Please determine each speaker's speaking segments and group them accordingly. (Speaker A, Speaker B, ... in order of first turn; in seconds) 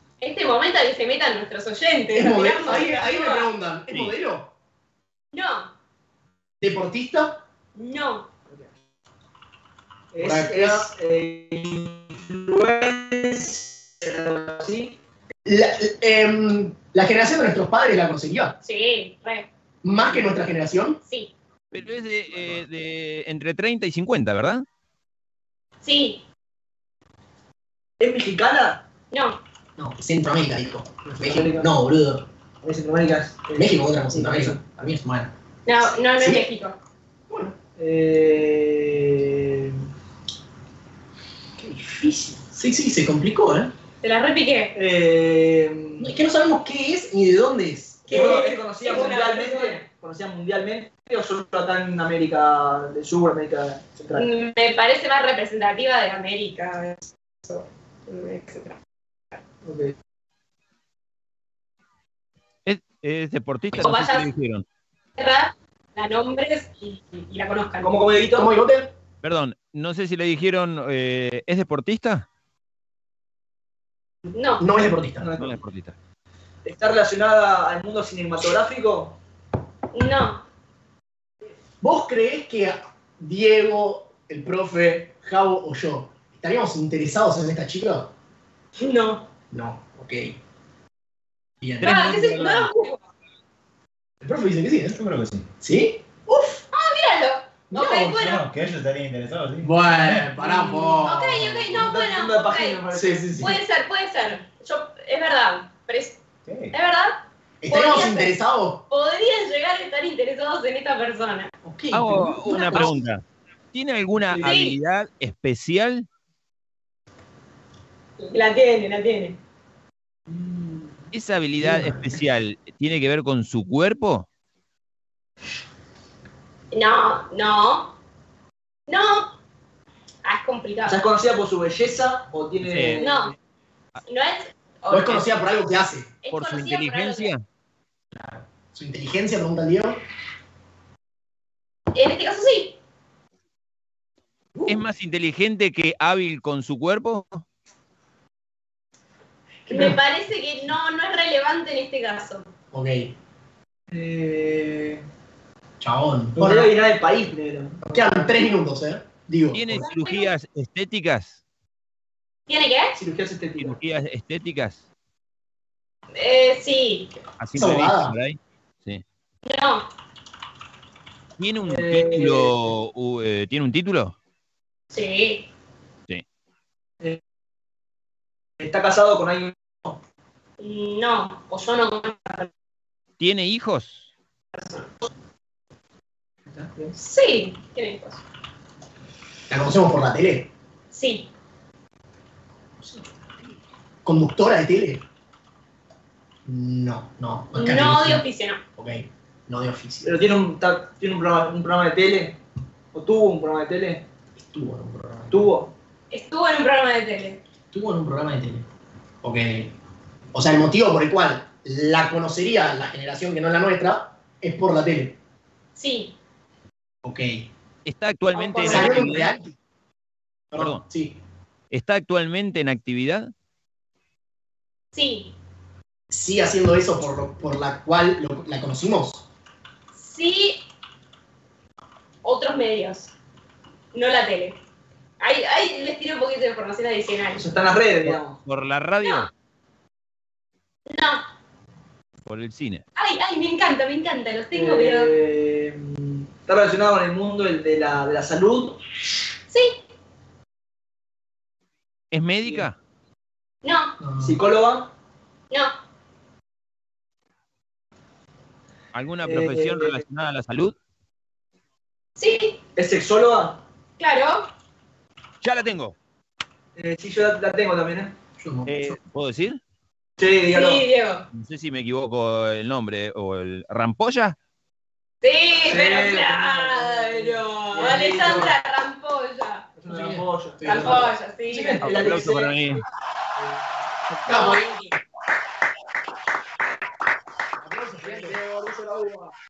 Speaker A: 0.2-3.5, 5.3-5.7, 7.7-8.3, 18.6-19.5, 21.1-21.3, 25.8-26.2, 29.1-29.4, 35.6-36.8, 44.0-44.7, 48.1-49.8, 54.1-58.8, 63.8-64.3, 65.2-68.0, 74.3-74.6, 79.9-80.4, 88.8-89.3, 91.8-93.0, 96.7-98.4, 101.0-102.8, 103.4-111.5, 112.5-112.9, 114.4-114.7, 118.2-119.4, 126.7-127.9, 128.9-129.4, 130.2-131.0, 133.0-133.3, 134.1-135.3, 136.2-137.3, 141.9-142.8, 149.7-152.5, 159.9-160.3, 162.5-162.9, 166.1-167.1, 169.4-169.9, 174.9-175.5, 180.6-182.5, 184.5-184.9, 186.9-188.2, 190.9-191.3, 197.5-198.6, 206.1-207.4, 215.8-216.1, 218.3-219.1, 224.9-225.3, 229.9-230.6, 232.2-233.1, 233.9-234.6, 235.2-237.4, 239.0-239.3, 240.9-241.2, 242.9-245.1, 249.5-249.8, 253.6-253.9, 262.2-262.6, 264.0-264.5, 270.5-271.2, 275.2-279.7, 280.6-281.9, 284.3-284.9
Speaker B: 2.1-4.5, 6.6-7.4, 10.2-10.9, 15.4-18.6, 19.8-21.0, 29.8-32.3, 33.5-35.3, 36.1-36.5, 37.3-37.5, 42.5-43.7, 46.0-48.5, 68.3-68.9, 74.6-75.3, 81.8-88.1, 89.5-90.4, 91.6-92.4, 94.2-95.0, 95.6-96.6, 97.7-98.2, 99.6-101.6, 102.9-103.6, 107.6-108.8, 111.6-112.9, 121.6-122.1, 134.9-136.2, 138.2-140.0, 144.5-144.8, 149.7-150.0, 152.7-153.1, 155.8-156.7, 157.9-159.9, 167.5-168.1, 189.5-190.5, 194.0-195.0, 196.4-198.2, 198.8-200.2, 204.4-205.5, 207.7-208.7, 209.2-209.7, 210.3-215.2, 217.0-217.5, 218.6-219.6, 220.5-221.2, 226.1-229.2, 254.0-254.4, 268.4-269.0, 279.9-281.7, 284.2-284.9, 287.6-288.4
Speaker C: 10.1-15.0, 28.0-28.8, 31.0-31.7, 32.6-34.6, 37.8-39.9, 41.6-42.4, 44.7-46.1, 48.1-54.3, 59.6-59.9, 67.8-68.5, 75.2-75.6, 76.6-79.2, 100.4-101.0, 101.7-103.3, 114.3-114.6, 120.3-121.1, 130.9-133.3, 153.9-155.0, 156.4-158.1, 162.9-163.8, 171.7-172.6, 178.6-180.0, 186.5-186.9, 200.0-202.4, 202.9-204.0, 205.3-205.7, 237.4-238.4, 244.5-248.8, 254.2-254.9, 259.2-260.0, 262.8-263.6, 266.8-268.1, 270.2-270.8, 275.7-278.6, 279.8-282.7, 288.0-289.3
Speaker D: 21.7-24.6, 62.6-64.6, 69.2-72.3, 75.4-76.0, 91.9-92.5, 111.9-116.1, 121.1-124.3, 132.6-133.0, 136.3-137.4, 144.7-147.4, 159.5-161.4, 163.6-164.8, 167.4-169.0, 171.4-174.2, 183.2-184.1, 217.8-219.3, 220.5-220.8, 221.7-223.3, 238.1-239.3, 242.2-242.8, 252.1-252.8, 258.9-260.8, 265.4-265.9, 268.6-269.6, 271.3-274.4, 281.8-282.8
Speaker E: 94.9-95.5, 98.1-100.3, 106.5-106.7